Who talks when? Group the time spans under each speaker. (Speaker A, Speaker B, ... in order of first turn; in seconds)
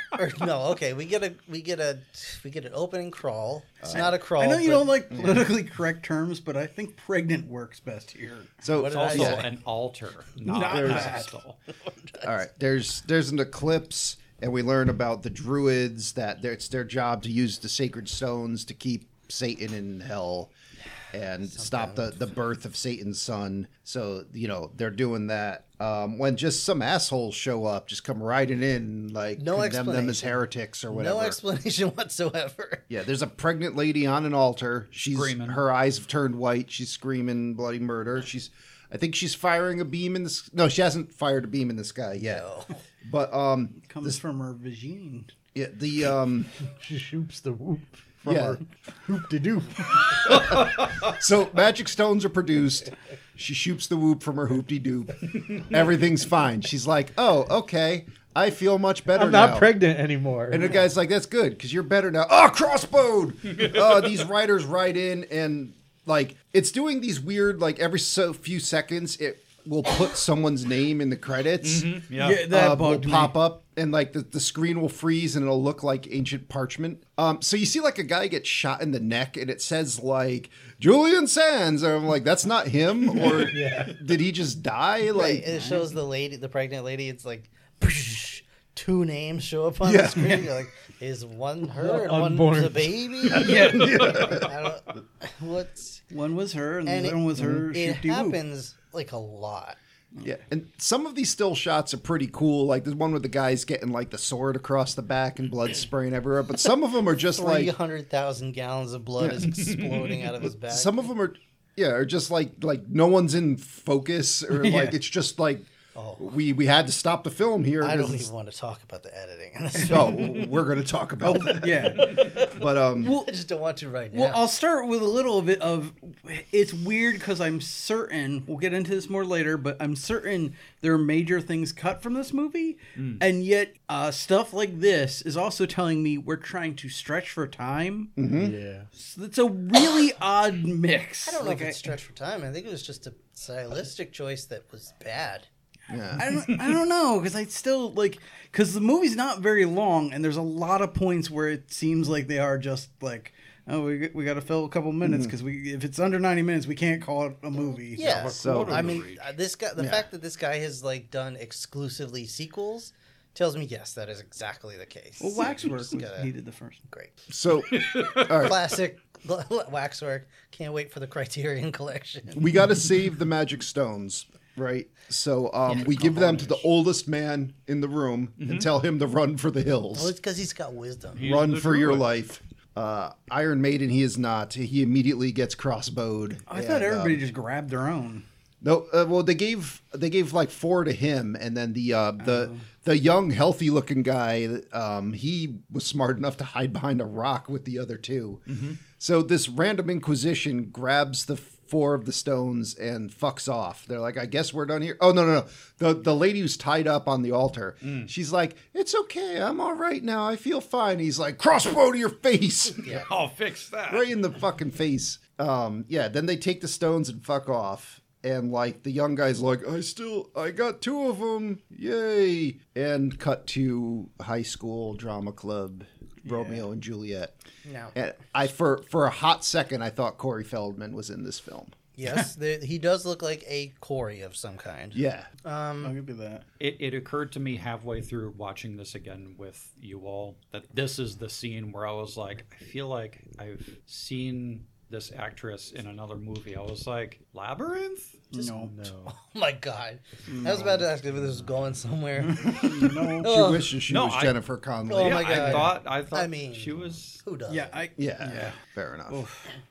Speaker A: 0.1-5.4, 8.7-9.5, 11.8-12.3, 21.4-22.3, 29.4-32.9, 42.2-42.8, 85.1-96.0, 96.8-99.8, 107.2-111.0, 115.9-116.3, 117.8-120.4, 122.0-124.4, 141.2-145.5, 157.9-166.3, 166.9-167.1, 168.3-172.6, 179.9-181.2, 227.6-227.9, 231.9-235.9, 248.4-253.8, 254.9-257.8
Speaker B: 3.8-4.1, 5.1-5.4, 8.6-9.4, 10.7-11.2, 12.2-20.5, 21.1-31.4, 32.9-42.5, 43.0-44.2, 45.5-46.5, 48.2-48.6, 50.3-59.7, 60.5-71.9, 72.4-85.5, 89.8-90.5, 93.3-94.5, 100.2-107.7, 109.2-109.5, 110.7-118.3, 119.8-123.2, 138.2-138.6, 145.9-146.3, 155.0-155.3, 158.2-159.0, 159.8-160.1, 167.3-168.6, 172.3-180.1, 181.2-187.2, 188.6-213.0, 213.9-227.3, 227.9-231.7, 234.9-235.3, 253.2-255.6, 258.0-259.2
Speaker C: 4.0-8.5, 10.4-11.3, 43.8-45.3, 72.2-73.3, 85.5-85.9, 93.3-94.4, 96.1-98.4, 114.5-115.0, 121.2-123.3, 124.1-138.1, 138.9-141.9, 146.2-158.1, 165.2-166.8, 186.5-188.2, 192.2-192.6, 226.2-226.7, 235.8-236.4, 248.3-248.7, 250.3-250.8, 252.3-253.4, 257.5-259.5
Speaker D: 8.8-11.6, 35.1-35.6, 50.4-51.0, 63.5-64.1, 71.6-72.5, 109.5-110.3, 132.9-133.2, 158.0-159.3, 167.7-168.5, 175.7-176.7, 178.4-178.7, 181.1-182.1, 198.5-198.8, 207.8-208.1, 212.8-214.1, 236.6-248.2, 253.9-254.4, 254.9-257.2
Speaker E: 46.6-50.7, 59.1-60.7, 83.5-84.0, 91.8-93.3, 138.3-138.9, 248.5-249.1